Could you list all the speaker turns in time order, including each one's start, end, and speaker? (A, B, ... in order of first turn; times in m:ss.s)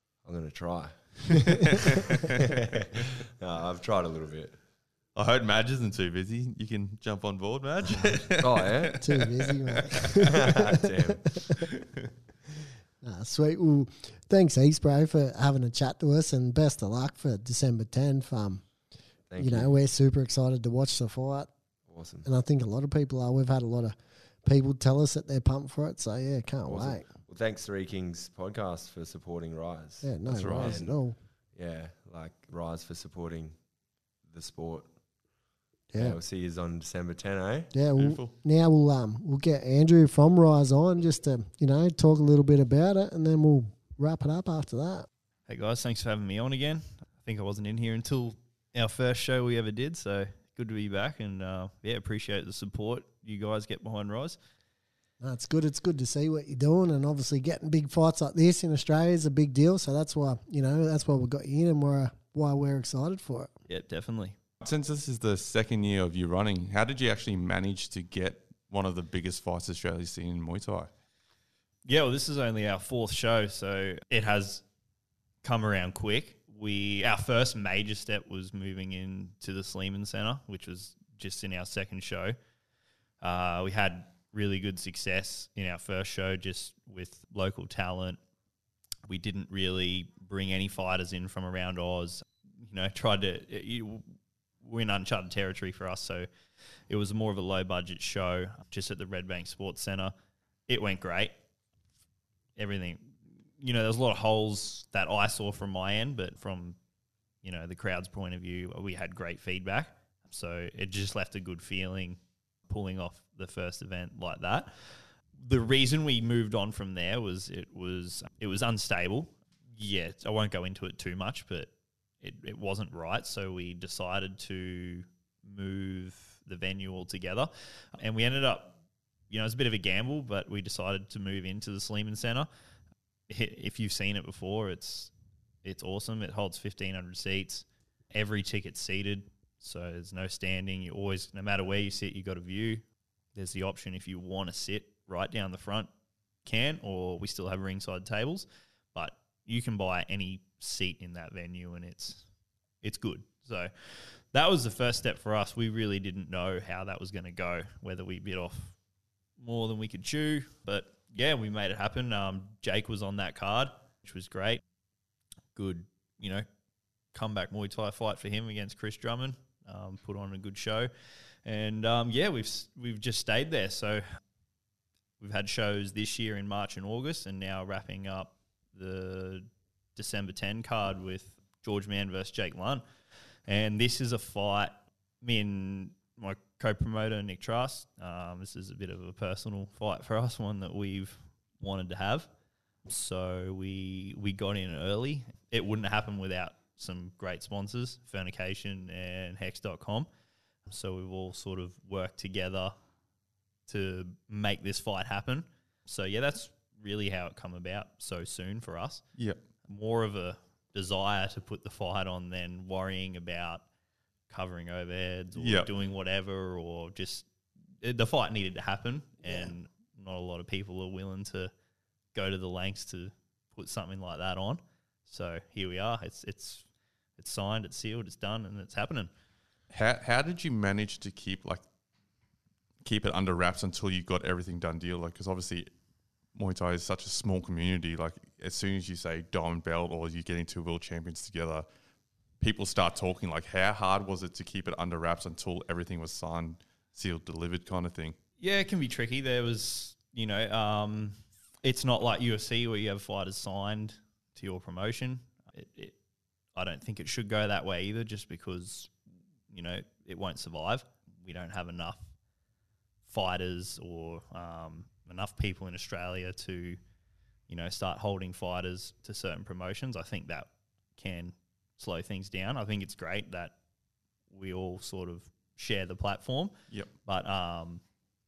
0:00.2-0:04.6 A
0:05.1-0:10.0 B
0:08.4-0:09.0 A
0:09.0-0:11.4 C
0:10.2-0:11.4 A
0:13.0-0:18.6 C
0:19.3-0:19.7 A
0:19.4-0:21.5 C
0:21.9-0:22.3 A
0:22.2-0:27.1 C
0:26.7-0:31.0 A
0:30.0-0:31.2 C
0:30.3-0:30.8 B
0:31.5-0:33.6 A
0:34.2-0:34.9 A
0:35.9-0:36.2 C
0:35.9-0:37.7 A
0:37.7-0:45.1 C
0:38.0-0:38.3 B
0:45.5-0:54.4 D
0:55.2-1:03.5 C
1:03.7-1:04.4 D
1:04.6-1:10.9 B
1:11.8-1:14.6 D
1:15.4-1:22.4 D
1:23.2-1:28.2 D
1:29.1-1:34.1 D
1:34.6-1:36.3 D
1:36.9-1:40.1 D
1:40.7-1:41.4 D
1:42.6-1:46.8 D
1:47.4-2:08.8 D
2:09.3-2:12.5 D
2:13.3-2:15.1 D
2:15.6-2:22.8 D
2:23.3-2:25.9 D
2:26.4-2:32.2 D
2:32.8-2:33.7 D
2:34.3-2:38.7 D
2:39.4-2:44.6 D
2:45.5-2:46.4 D
2:47.1-2:50.9 D
2:51.4-2:54.0 D
2:55.2-3:02.8 D
3:03.4-3:12.3 D
3:12.8-3:20.1 D
3:20.6-3:22.7 D
3:23.7-3:29.0 D
3:29.6-3:33.6 D
3:34.3-3:37.3 D
3:35.4-3:35.7 B
3:37.8-3:41.5 D
3:39.2-3:39.5 C
3:42.1-3:46.6 D
3:47.2-3:49.1 D
3:49.7-3:51.6 B
3:52.8-3:55.7 B
3:56.3-4:01.6 B
4:02.4-4:08.2 B
4:08.4-4:16.0 D
4:16.5-4:18.9 D
4:19.5-4:22.0 D
4:23.0-4:26.8 D
4:27.5-4:33.6 D
4:34.3-4:36.5 D
4:37.0-4:37.8 D